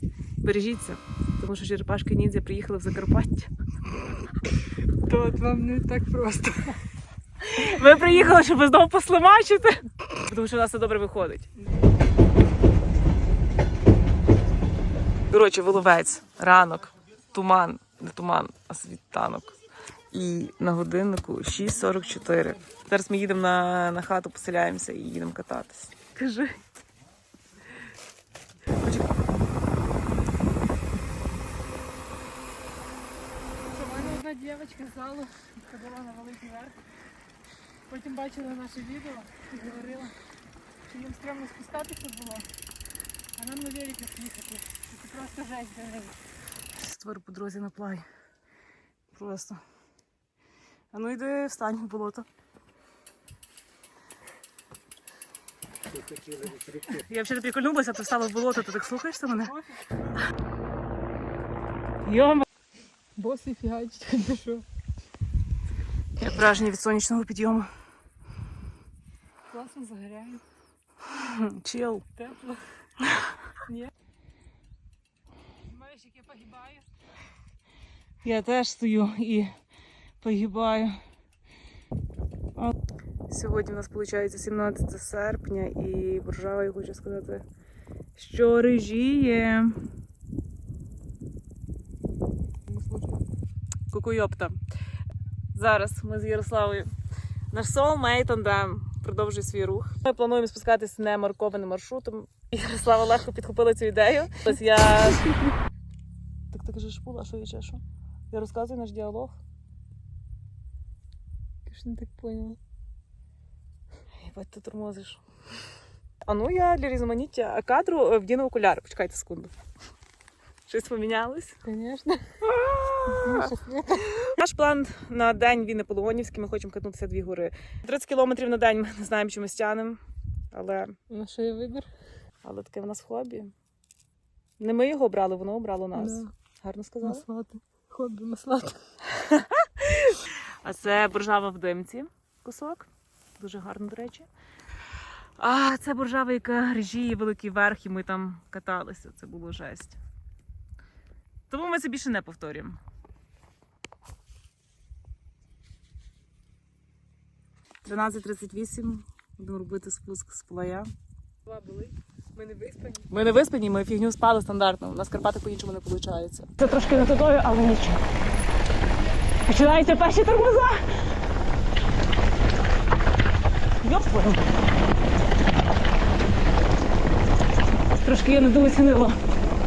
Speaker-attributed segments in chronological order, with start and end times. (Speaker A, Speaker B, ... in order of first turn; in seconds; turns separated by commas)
Speaker A: 0.4-3.5, Speaker B: 5.0-6.8, Speaker A: 7.4-11.5, Speaker A: 15.3-19.6, Speaker A: 20.1-26.6, Speaker A: 28.8-29.1, Speaker B: 33.7-36.8, Speaker B: 37.9-40.2, Speaker B: 40.9-42.5, Speaker B: 43.4-46.2, Speaker A: 46.8-48.1, Speaker A: 49.1-49.6, Speaker A: 50.9-52.3, Speaker A: 56.7-59.5, Speaker A: 62.0-62.5, Speaker B: 63.2-64.7, Speaker A: 66.2-67.7, Speaker B: 69.5-70.4, Speaker A: 71.1-72.0, Speaker B: 72.2-72.6, Speaker B: 73.7-73.9, Speaker B: 75.7-76.9, Speaker A: 78.2-79.5, Speaker A: 80.2-81.0, Speaker A: 83.3-87.5, Speaker A: 88.2-89.9, Speaker B: 92.7-93.2, Speaker A: 93.9-94.6, Speaker A: 95.5-96.9, Speaker A: 97.5-105.3, Speaker A: 106.5-109.4, Speaker B: 111.7-112.6, Speaker A: 114.1-115.2, Speaker A: 116.2-119.5, Speaker A: 120.7-121.6, Speaker B: 121.7-122.5, Speaker A: 122.5-123.5, Speaker B: 123.1-124.3, Speaker A: 124.2-130.0, Speaker A: 130.5-130.9, Speaker B: 131.1-131.9, Speaker A: 132.4-133.5, Speaker A: 134.6-137.2, Speaker B: 135.9-136.3, Speaker B: 137.0-138.8, Speaker A: 139.1-144.3, Speaker A: 145.4-150.0, Speaker A: 151.5-152.8, Speaker A: 157.8-160.9, Speaker B: 161.5-163.1, Speaker A: 163.1-168.0, Speaker A: 169.5-170.9, Speaker A: 173.8-174.5, Speaker A: 178.0-179.2